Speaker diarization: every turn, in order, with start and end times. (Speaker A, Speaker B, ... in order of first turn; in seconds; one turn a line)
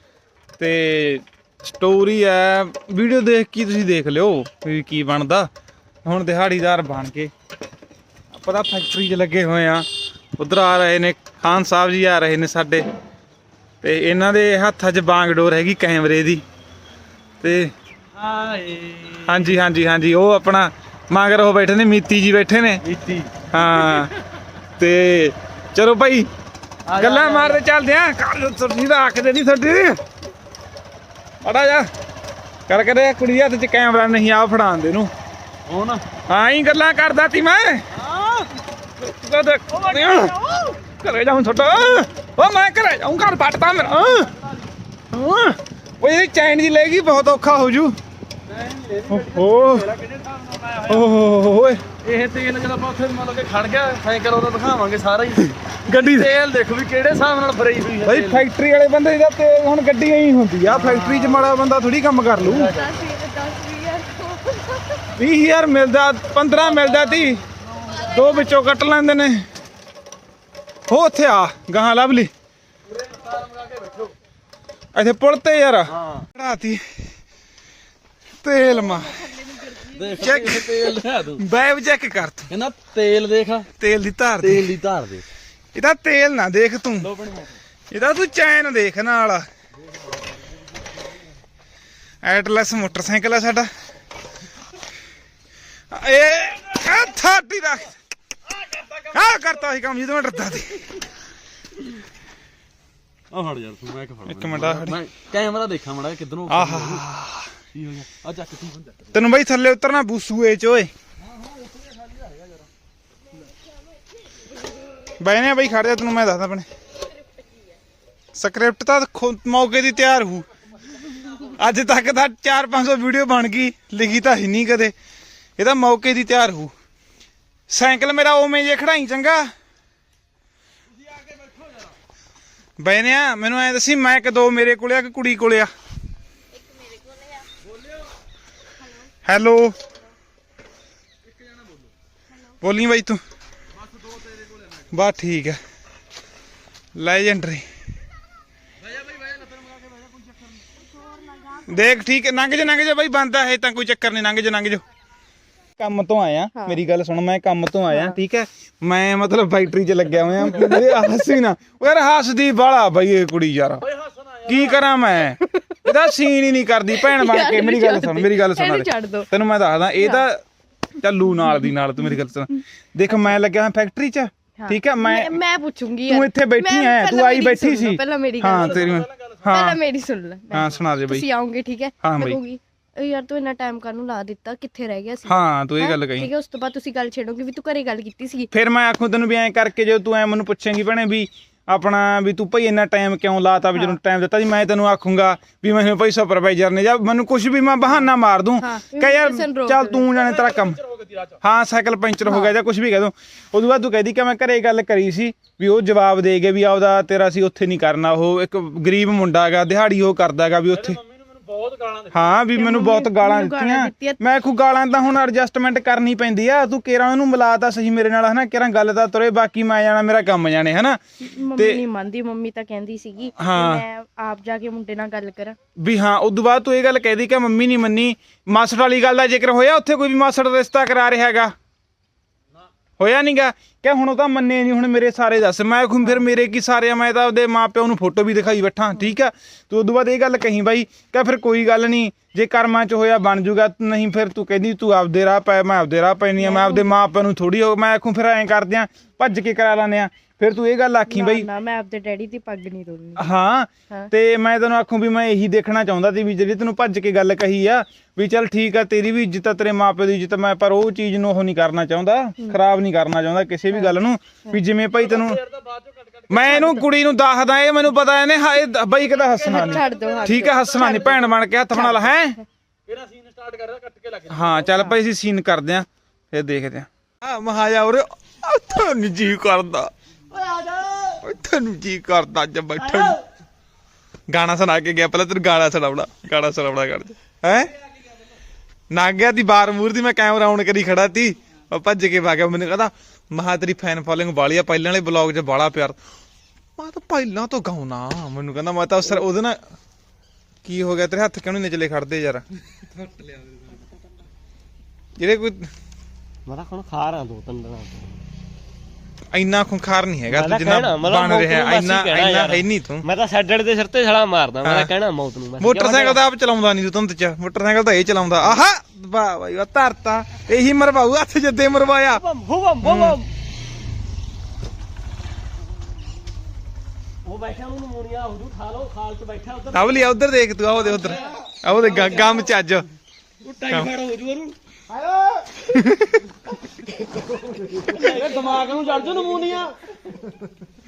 Speaker A: 0.6-5.5
Speaker A: 6.0-7.3
Speaker A: 8.3-9.8
Speaker A: 10.4-12.8
Speaker A: 13.8-16.4
Speaker A: 17.4-17.7
Speaker B: 18.1-19.5
Speaker A: 19.2-22.8
Speaker B: 22.8-24.0
Speaker A: 23.5-24.1
Speaker A: 24.8-26.3
Speaker B: 26.9-27.6
Speaker A: 27.0-30.0
Speaker A: 31.4-31.9
Speaker A: 32.7-35.1
Speaker B: 35.7-36.0
Speaker A: 36.3-37.8
Speaker B: 38.0-38.5
Speaker A: 39.0-44.3
Speaker A: 45.1-48.0
Speaker B: 48.5-51.0
Speaker A: 49.1-50.0
Speaker A: 50.8-51.8
Speaker B: 52.0-58.5
Speaker A: 55.9-56.3
Speaker A: 58.0-62.8
Speaker B: 60.7-61.5
Speaker B: 62.4-62.8
Speaker C: 62.6-65.0
Speaker A: 65.2-67.4
Speaker C: 67.9-68.5
Speaker A: 68.0-69.4
Speaker A: 70.9-72.3
Speaker B: 73.0-74.1
Speaker A: 74.9-77.1
Speaker A: 78.4-79.4
Speaker C: 78.9-80.3
Speaker B: 79.8-81.4
Speaker A: 80.2-82.5
Speaker B: 82.5-83.7
Speaker A: 83.8-84.7
Speaker B: 84.4-85.2
Speaker A: 85.7-87.1
Speaker B: 87.0-87.6
Speaker A: 87.9-89.4
Speaker A: 92.2-93.7
Speaker A: 95.9-97.9
Speaker A: 99.1-101.1
Speaker B: 103.3-107.0
Speaker A: 104.2-105.0
Speaker A: 106.5-107.5
Speaker B: 107.7-109.1
Speaker A: 109.1-110.9
Speaker B: 111.5-112.3
Speaker A: 115.2-116.7
Speaker A: 118.3-120.5
Speaker A: 121.4-124.9
Speaker A: 125.6-126.7
Speaker A: 127.7-129.5
Speaker A: 132.8-135.7
Speaker A: 139.2-139.8
Speaker A: 142.6-143.2
Speaker A: 144.9-145.6
Speaker A: 146.9-147.7
Speaker B: 148.9-149.6
Speaker C: 151.1-151.4
Speaker A: 151.7-154.8
Speaker A: 155.8-163.9
Speaker C: 156.5-156.8
Speaker C: 157.9-158.2
Speaker C: 160.5-160.9
Speaker A: 164.4-170.4
Speaker C: 165.4-166.1
Speaker C: 166.9-169.3
Speaker C: 170.0-170.2
Speaker A: 171.0-175.4
Speaker C: 174.6-179.0
Speaker A: 176.1-179.8
Speaker C: 179.5-188.5
Speaker A: 180.5-181.3
Speaker A: 182.0-182.4
Speaker A: 185.3-186.3
Speaker A: 188.5-200.8
Speaker C: 197.9-200.2
Speaker B: 200.9-201.3
Speaker A: 201.4-211.0
Speaker C: 202.2-202.5
Speaker B: 210.8-212.2
Speaker A: 212.1-221.0
Speaker C: 212.5-214.2
Speaker C: 221.2-225.6
Speaker A: 221.6-221.8
Speaker A: 223.4-223.8
Speaker A: 225.8-231.5
Speaker A: 233.0-251.5
Speaker C: 246.4-246.9
Speaker C: 251.1-253.3
Speaker A: 253.2-265.4
Speaker B: 265.1-266.3
Speaker A: 266.3-272.4
Speaker C: 266.3-266.8
Speaker C: 269.4-272.3
Speaker B: 269.6-270.2
Speaker B: 272.9-274.6
Speaker A: 274.3-279.9
Speaker C: 274.7-275.0
Speaker D: 280.3-281.2
Speaker A: 281.2-283.2
Speaker D: 282.8-283.2
Speaker A: 284.3-287.7
Speaker A: 288.9-296.0
Speaker A: 296.8-299.6
Speaker A: 300.6-302.4
Speaker A: 305.2-305.7
Speaker D: 306.4-308.2
Speaker A: 309.3-313.0
Speaker D: 310.3-316.2
Speaker A: 314.6-314.9
Speaker A: 315.6-322.2
Speaker D: 322.1-323.3
Speaker A: 322.8-323.2
Speaker D: 327.2-330.1
Speaker A: 329.7-332.9
Speaker D: 331.8-332.4
Speaker A: 333.7-333.9
Speaker D: 333.7-335.4
Speaker A: 335.7-336.2
Speaker D: 337.1-338.6
Speaker B: 338.0-339.7